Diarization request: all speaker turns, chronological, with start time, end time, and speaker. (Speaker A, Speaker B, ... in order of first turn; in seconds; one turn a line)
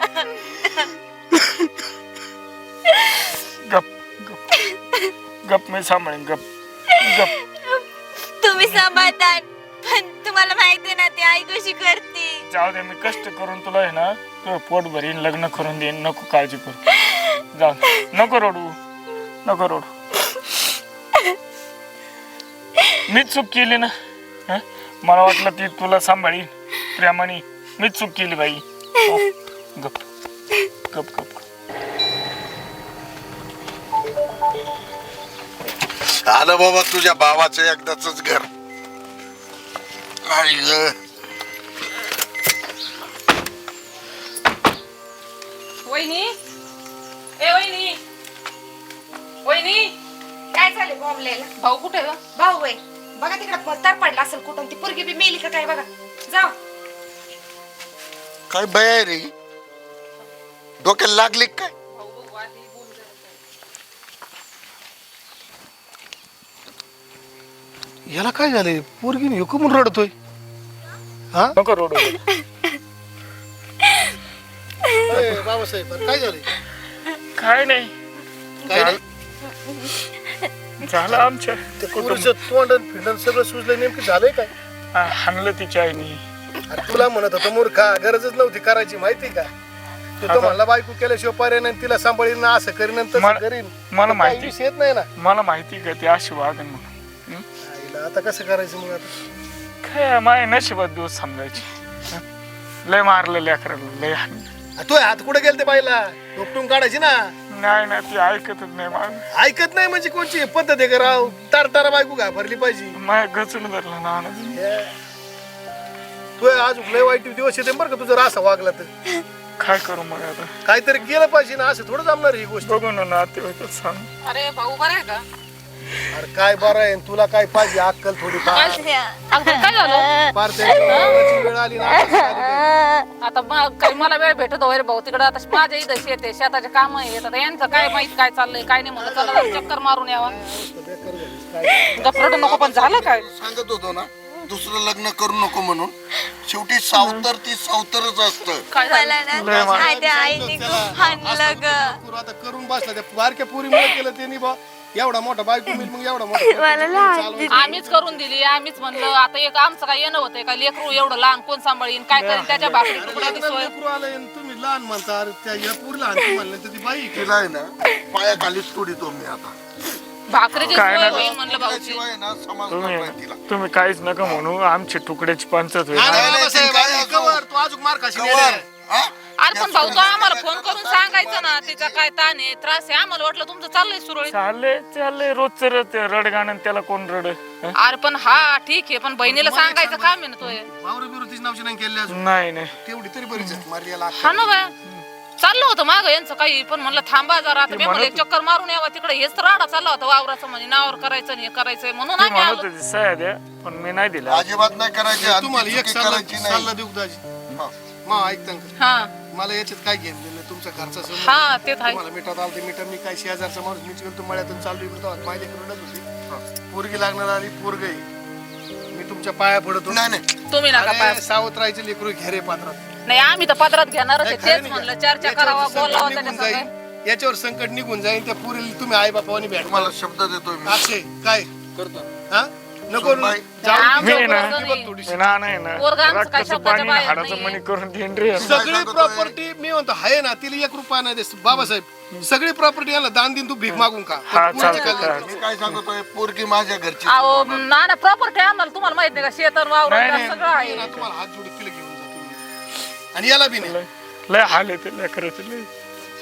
Speaker A: 0.2-0.9
Speaker B: 3.6-4.4
Speaker B: 5.4-6.4
Speaker A: 6.9-7.8
Speaker B: 7.0-7.3
Speaker A: 8.4-12.4
Speaker B: 8.6-9.1
Speaker B: 12.5-16.8
Speaker B: 17.5-18.8
Speaker B: 19.4-19.9
Speaker B: 23.1-23.9
Speaker B: 24.5-30.0
Speaker B: 30.9-31.4
Speaker C: 36.1-38.5
Speaker C: 40.2-40.9
Speaker D: 45.8-46.3
Speaker D: 47.4-48.0
Speaker D: 49.4-49.9
Speaker E: 50.5-51.5
Speaker D: 51.6-52.2
Speaker E: 52.3-56.5
Speaker C: 58.5-59.3
Speaker C: 60.8-61.7
Speaker D: 61.9-63.4
Speaker F: 68.1-70.1
Speaker B: 71.6-72.2
Speaker F: 75.1-76.5
Speaker B: 77.4-77.9
Speaker F: 78.7-79.0
Speaker B: 78.7-79.0
Speaker B: 80.8-82.3
Speaker F: 81.8-84.5
Speaker B: 84.9-86.2
Speaker F: 86.7-89.5
Speaker F: 90.2-95.1
Speaker B: 90.2-90.5
Speaker B: 93.1-94.5
Speaker B: 95.2-97.4
Speaker F: 97.7-99.1
Speaker B: 99.8-102.2
Speaker B: 102.8-104.5
Speaker F: 104.8-107.3
Speaker B: 107.5-109.3
Speaker F: 109.3-113.0
Speaker B: 113.0-114.6
Speaker F: 114.5-114.9
Speaker F: 116.4-118.9
Speaker B: 119.6-120.5
Speaker F: 120.6-122.8
Speaker B: 122.6-124.1
Speaker D: 124.2-125.2
Speaker F: 126.1-128.9
Speaker A: 128.4-133.1
Speaker D: 128.5-130.1
Speaker F: 130.3-132.7
Speaker D: 130.8-131.2
Speaker D: 133.2-140.4
Speaker F: 139.0-139.7
Speaker F: 140.3-142.2
Speaker D: 141.9-143.2
Speaker C: 142.4-148.6
Speaker D: 148.7-149.5
Speaker A: 148.7-152.0
Speaker B: 149.3-149.9
Speaker F: 149.5-158.3
Speaker A: 153.7-154.0
Speaker A: 155.7-157.8
Speaker D: 157.5-163.7
Speaker B: 162.1-162.8
Speaker F: 162.9-167.2
Speaker C: 167.1-169.5
Speaker D: 170.3-172.0
Speaker C: 170.5-173.4
Speaker B: 170.7-171.2
Speaker B: 172.7-176.3
Speaker F: 175.9-178.6
Speaker C: 176.0-177.4
Speaker C: 178.1-182.0
Speaker D: 179.4-184.3
Speaker B: 184.3-187.7
Speaker D: 187.8-190.7
Speaker F: 189.2-190.2
Speaker F: 190.7-194.7
Speaker B: 192.1-192.7
Speaker B: 193.3-193.6
Speaker D: 194.2-194.7
Speaker D: 195.4-202.6
Speaker B: 197.7-198.2
Speaker B: 202.2-204.4
Speaker C: 204.3-206.7
Speaker F: 205.2-207.2
Speaker F: 208.1-208.7
Speaker D: 208.8-209.1
Speaker F: 209.3-216.1
Speaker D: 211.1-212.0
Speaker F: 216.7-218.0
Speaker F: 218.9-220.0
Speaker C: 219.9-220.2
Speaker D: 220.5-221.2
Speaker F: 220.7-222.8
Speaker D: 223.1-226.7
Speaker F: 224.2-229.9
Speaker C: 229.6-230.9
Speaker F: 230.7-231.5
Speaker F: 232.3-235.3
Speaker C: 233.0-233.5
Speaker D: 233.6-234.9
Speaker B: 234.0-238.6
Speaker D: 235.8-237.6
Speaker C: 238.3-239.3
Speaker F: 238.4-245.1
Speaker B: 241.5-242.3
Speaker B: 243.7-245.8
Speaker D: 244.5-245.2
Speaker C: 244.9-247.6
Speaker D: 247.1-250.9
Speaker B: 249.9-250.3
Speaker F: 250.1-252.4
Speaker F: 253.1-253.8
Speaker B: 253.6-255.7